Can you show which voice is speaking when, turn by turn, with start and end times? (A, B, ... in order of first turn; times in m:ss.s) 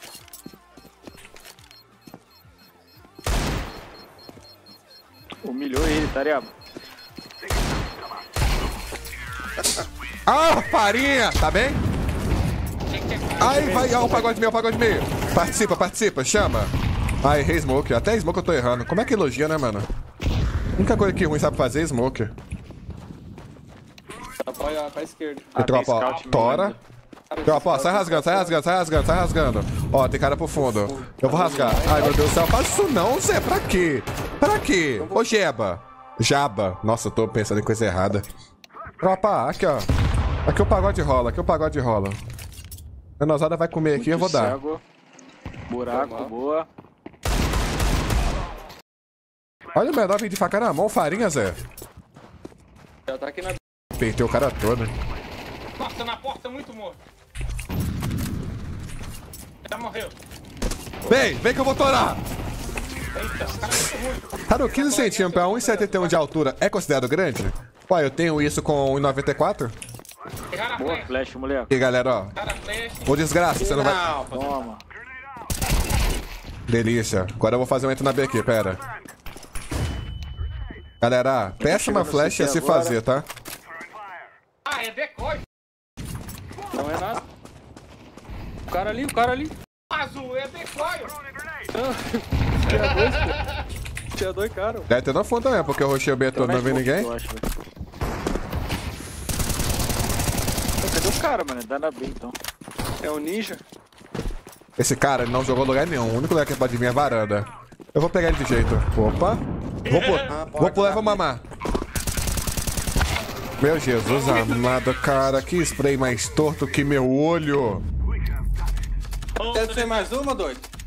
0:05.4-0:06.5 A
0:10.3-0:11.8 B
0:12.9-0:13.8 C
0:13.4-0:19.9 B
0:13.4-0:14.5 A
0:20.8-0:22.3 B
0:24.4-0:25.6 D
0:25.6-0:26.8 A
0:25.6-0:26.8 B
0:25.9-0:26.7 C
0:27.3-0:28.6 D
0:27.5-0:38.2 B
0:30.6-0:32.4 D
0:35.0-0:35.3 D
0:39.0-0:39.9 B
0:40.5-0:42.2 B
0:43.2-0:44.6 B
0:43.9-0:44.8 A
0:45.7-0:46.7 A
0:45.9-0:46.4 D
0:49.7-0:51.6 B
0:53.1-0:53.6 D
0:54.0-0:54.9 B
0:55.8-0:57.0 C
0:59.7-1:00.2 C
1:01.1-1:01.3 D
1:01.1-1:02.2 B
1:03.1-1:06.2 C
1:04.5-1:09.7 B
1:10.5-1:11.2 C
1:10.8-1:11.7 A
1:11.7-1:12.3 B
1:12.4-1:13.2 C
1:13.1-1:14.2 B
1:13.6-1:14.6 E
1:14.2-1:14.8 A
1:16.7-1:18.8 B
1:21.0-1:23.3 B
1:21.6-1:23.0 A
1:24.7-1:25.4 C
1:26.7-1:27.2 D
1:28.7-1:29.5 D
1:29.9-1:31.2 C
1:31.7-1:33.4 D
1:32.7-1:33.6 C
1:34.1-1:34.9 D
1:34.9-1:37.1 B
1:36.4-1:37.5 A
1:40.8-1:42.4 A
1:43.0-1:43.6 D
1:44.8-1:51.4 B
1:49.9-1:50.3 C
1:50.3-1:51.2 E
1:53.6-1:57.8 B
1:54.0-1:54.8 C
1:59.4-2:00.1 C
1:59.5-2:00.7 E